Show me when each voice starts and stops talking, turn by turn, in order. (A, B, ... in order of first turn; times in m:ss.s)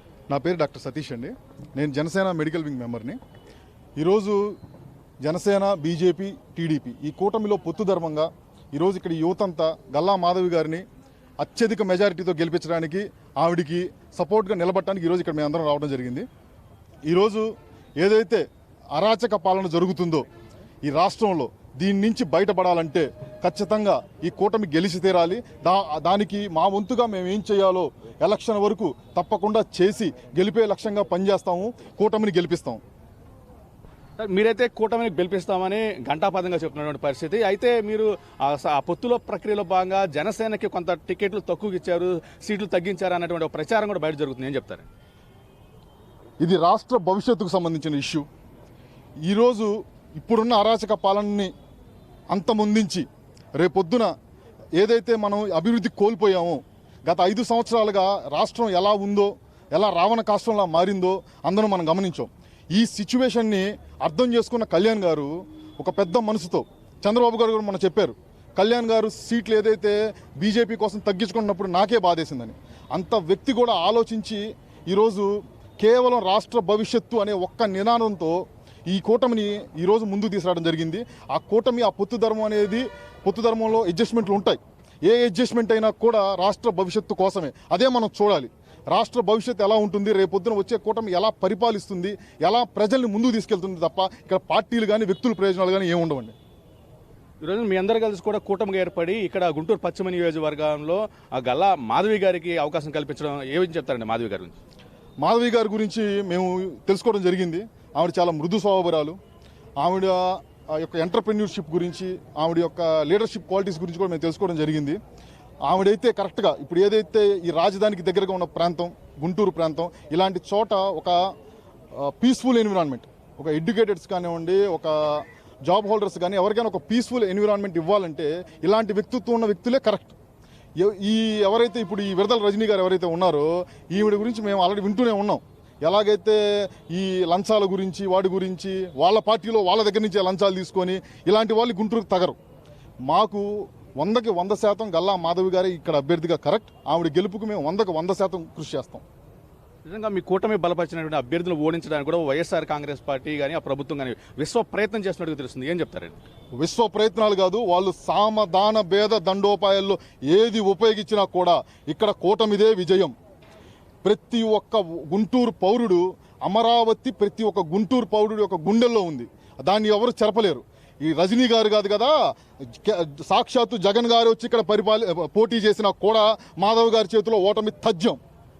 0:00.3-0:03.2 A
0:04.0-0:04.6 A
0:05.2-0:10.8 A
0:11.4-0:16.2 A
0:17.1-0:20.2 A
0:20.8-0:32.8 A
0:34.2-0:44.9 B
0:46.4-0:48.2 A
0:49.2-0:51.5 A
0:52.3-0:53.1 A
0:53.6-0:54.1 A
0:54.8-1:36.3 A
1:37.4-1:44.6 B
1:45.2-1:49.2 A
1:49.8-1:55.0 A
1:55.7-2:01.3 A
2:01.9-2:10.1 A
2:10.8-2:22.4 A
2:23.1-2:29.0 A
2:29.8-2:36.1 B
2:36.6-2:43.1 A
2:44.0-2:58.2 A